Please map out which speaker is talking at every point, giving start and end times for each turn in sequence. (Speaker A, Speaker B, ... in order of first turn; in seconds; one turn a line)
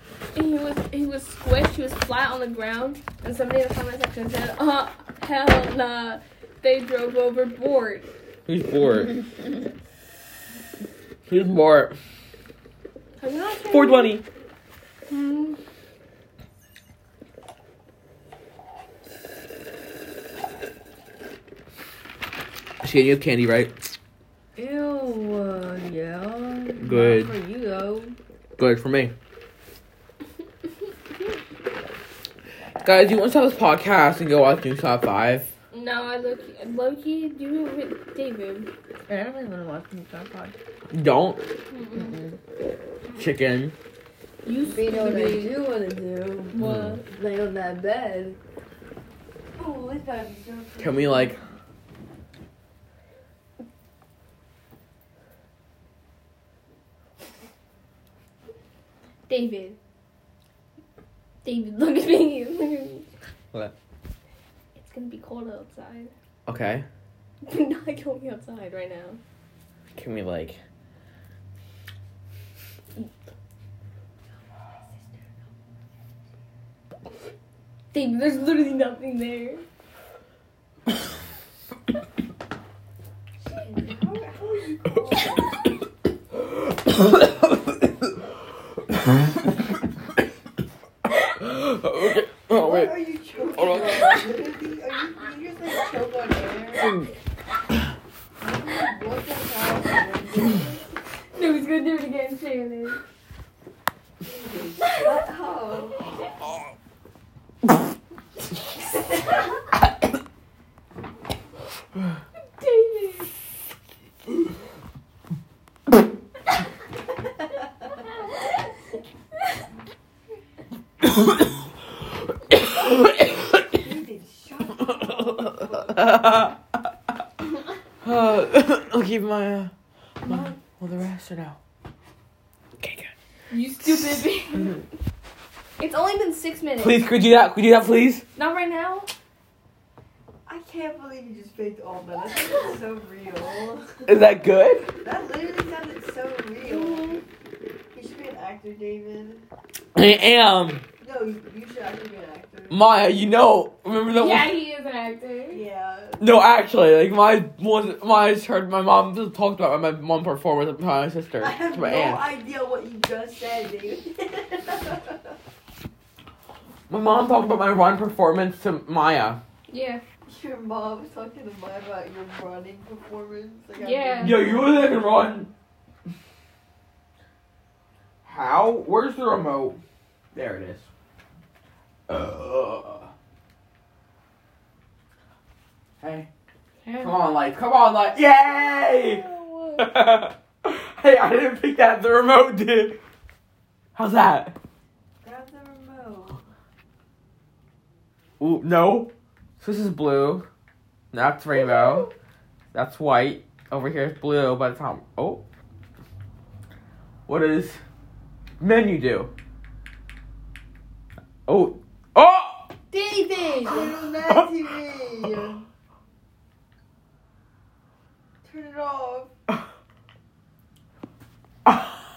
Speaker A: 0.3-8.1
Speaker B: 8.5-9.2
Speaker B: 11.3-11.9
Speaker A: 13.2-14.2
Speaker B: 13.7-14.2
Speaker A: 15.1-15.6
Speaker B: 22.8-23.7
Speaker C: 24.6-28.2
Speaker B: 26.8-27.3
Speaker B: 28.6-29.1
Speaker B: 32.8-35.5
Speaker A: 35.7-38.7
Speaker C: 39.1-40.6
Speaker B: 40.9-41.4
Speaker A: 41.7-42.2
Speaker C: 41.9-42.4
Speaker B: 43.2-43.8
Speaker A: 44.4-45.6
Speaker C: 44.6-46.5
Speaker A: 46.5-47.1
Speaker B: 46.6-47.0
Speaker C: 47.1-48.4
Speaker C: 49.5-51.2
Speaker B: 50.8-51.4
Speaker A: 59.3-59.8
Speaker A: 61.4-63.1
Speaker A: 64.8-66.1
Speaker B: 66.5-66.9
Speaker A: 67.4-69.2
Speaker B: 69.9-70.6
Speaker A: 77.9-79.6
Speaker C: 83.4-85.2
Speaker B: 86.9-87.2
Speaker B: 91.4-92.9
Speaker C: 92.6-96.9
Speaker B: 93.6-94.2
Speaker A: 93.6-94.2
Speaker C: 98.4-100.8
Speaker A: 101.3-103.0
Speaker A: 104.7-105.2
Speaker C: 104.9-106.0
Speaker A: 112.6-113.3
Speaker B: 122.5-123.8
Speaker C: 123.8-125.7
Speaker B: 124.8-126.6
Speaker B: 128.0-129.7
Speaker A: 130.2-130.6
Speaker B: 130.3-131.6
Speaker B: 132.8-133.1
Speaker A: 133.5-134.8
Speaker B: 133.8-134.2
Speaker A: 135.8-137.0
Speaker B: 136.8-138.2
Speaker A: 138.4-139.1
Speaker C: 140.5-143.9
Speaker B: 144.1-144.9
Speaker C: 145.0-147.2
Speaker A: 146.6-147.2
Speaker C: 147.9-149.4
Speaker B: 149.9-150.8
Speaker C: 151.0-152.8
Speaker B: 152.7-154.6
Speaker A: 154.1-155.6
Speaker C: 155.5-156.2
Speaker B: 156.2-162.3
Speaker C: 161.4-165.2
Speaker B: 166.9-169.4
Speaker A: 169.7-170.0
Speaker C: 170.2-174.9
Speaker A: 173.8-174.4
Speaker B: 174.2-175.5
Speaker B: 178.2-179.8
Speaker B: 180.3-180.9
Speaker B: 182.1-183.1
Speaker B: 186.0-186.3
Speaker A: 186.8-187.2
Speaker B: 187.0-189.2
Speaker A: 188.6-189.9
Speaker B: 189.8-193.0
Speaker B: 193.9-194.5
Speaker C: 195.2-196.4
Speaker B: 198.4-200.4
Speaker B: 201.1-202.1
Speaker B: 202.7-205.4
Speaker B: 207.3-207.8
Speaker B: 208.6-209.3
Speaker B: 211.5-212.7
Speaker A: 212.9-214.0
Speaker C: 213.6-215.6
Speaker B: 214.2-214.5
Speaker C: 218.4-219.3
Speaker B: 221.7-221.9